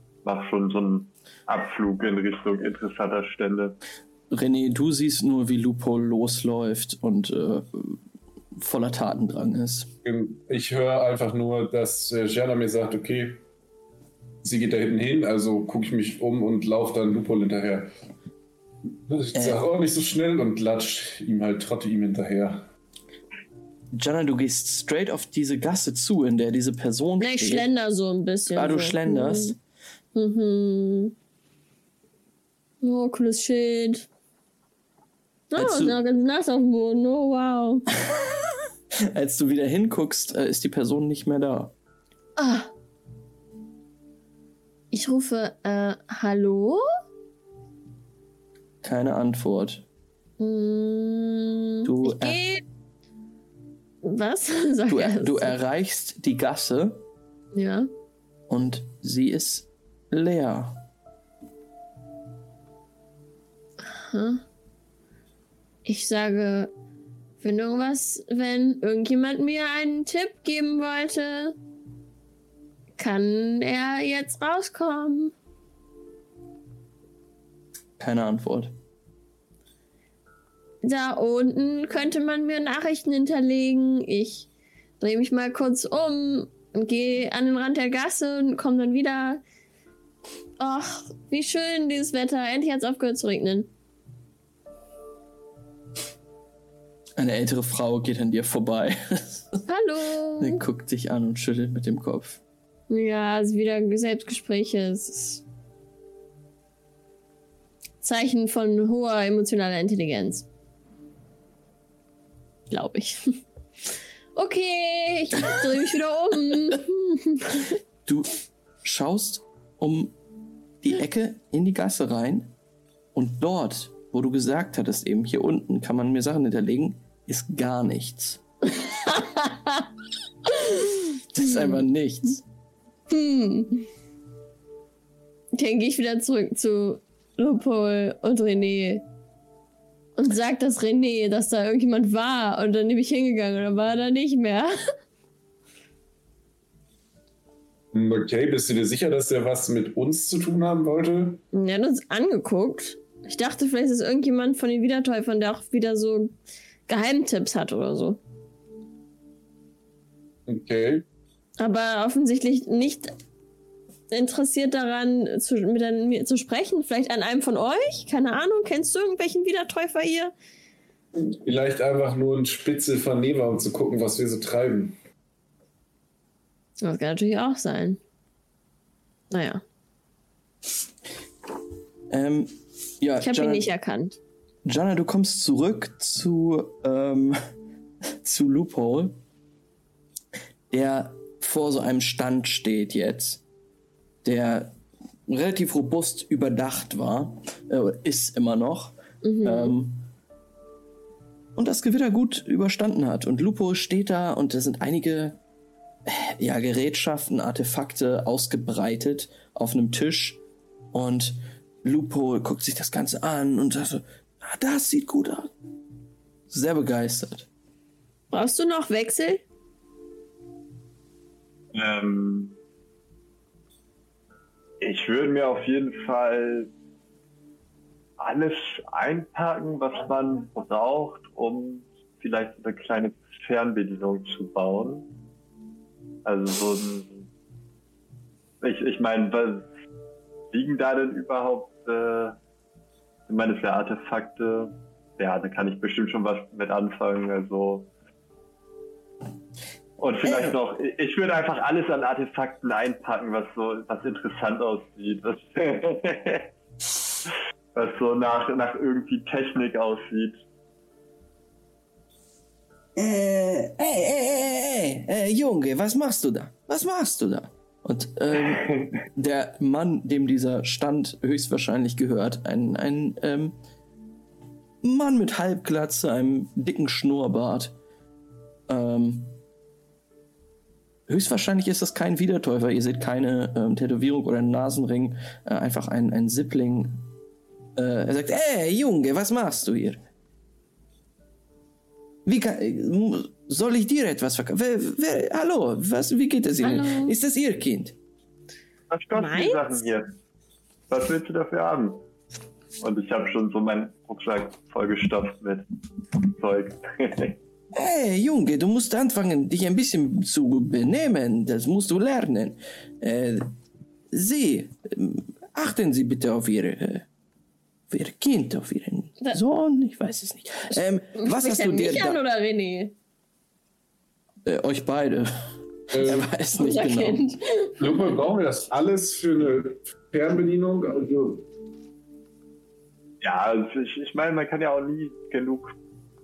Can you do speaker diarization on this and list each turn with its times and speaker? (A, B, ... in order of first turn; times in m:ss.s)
0:00.2-0:03.8 A
0:04.3-0:08.0 B
0:08.6-0:09.9 B
0:10.0-0:13.4 C
0:14.4-0:17.9 C
0:19.1-0:22.6 C
0:19.3-0:19.6 B
0:23.9-0:27.7 B
0:27.2-0:29.5 D
0:28.5-0:29.6 B
0:30.1-0:31.1 D
0:32.8-0:34.1 D
0:35.5-0:37.9 D
0:35.5-0:36.0 B
0:38.1-0:41.7 B
0:42.4-0:42.7 D
0:44.9-0:46.8 D
0:48.8-0:49.8 B
0:50.4-0:52.6 D
0:51.8-0:52.4 B
0:54.0-0:55.6 D
0:54.9-0:57.0 B
0:57.5-0:57.9 D
0:58.5-1:00.8 B
1:03.8-1:04.4 D
1:05.8-1:06.7 D
1:07.4-1:11.6 D
1:13.0-1:15.3 D
1:18.0-1:18.7 B
1:20.8-1:24.5 D
1:25.0-1:29.4 D
1:30.6-1:33.7 D
1:37.2-1:39.6 B
1:39.7-1:40.6 D
1:40.4-1:42.4 B
1:42.9-1:45.4 D
1:48.0-1:50.4 D
1:52.7-1:53.4 D
1:54.3-1:57.8 D
1:58.8-2:00.1 B
2:00.8-2:02.5 B
2:03.1-2:08.4 B
2:08.8-2:09.9 D
2:10.5-2:11.8 D
2:11.3-2:12.4 B
2:13.1-2:13.9 D
2:15.5-2:19.0 D
2:20.2-2:24.8 D
2:27.9-2:31.4 C
2:31.5-2:36.3 D
2:36.9-2:38.2 D
2:40.5-2:41.0 C
2:41.6-2:43.1 D
2:44.1-2:50.3 D
2:51.1-2:55.0 C
2:56.8-2:58.0 D
2:59.3-2:59.6 D
3:02.1-3:03.6 B
3:03.2-3:04.2 D
3:04.6-3:07.4 B
3:08.1-3:09.2 B
3:10.7-3:13.4 B
3:14.2-3:14.7 B
3:15.3-3:20.1 B
3:19.2-3:19.7 D
3:21.6-3:25.4 B
3:26.0-3:30.4 B
3:30.9-3:35.5 B
3:36.5-3:37.5 B
3:38.3-3:39.4 D
3:41.7-3:42.6 A
3:44.8-3:46.7 A
3:48.2-3:55.1 A
3:56.2-3:57.3 A
3:58.6-3:59.7 A
4:00.5-4:02.4 A
4:03.3-4:07.9 A
4:10.0-4:16.5 A
4:10.2-4:10.5 B
4:17.2-4:20.4 A
4:22.9-4:33.6 B
4:28.4-4:28.9 A
4:34.8-4:37.7 B
4:38.7-4:39.4 B
4:41.1-4:47.0 B
4:47.8-4:50.0 B
4:52.2-4:57.9 B
4:56.6-4:57.1 D
4:58.9-5:00.1 A
4:59.1-4:59.8 D
5:00.9-5:02.0 A
5:02.8-5:05.6 A
5:06.2-5:07.4 A
5:07.7-5:13.5 B
5:14.1-5:17.0 B
5:17.9-5:22.2 B
5:20.7-5:22.9 D
5:24.4-5:27.2 B
5:25.9-5:26.3 C
5:26.6-5:28.1 D
5:27.8-5:31.4 C
5:33.2-5:35.7 A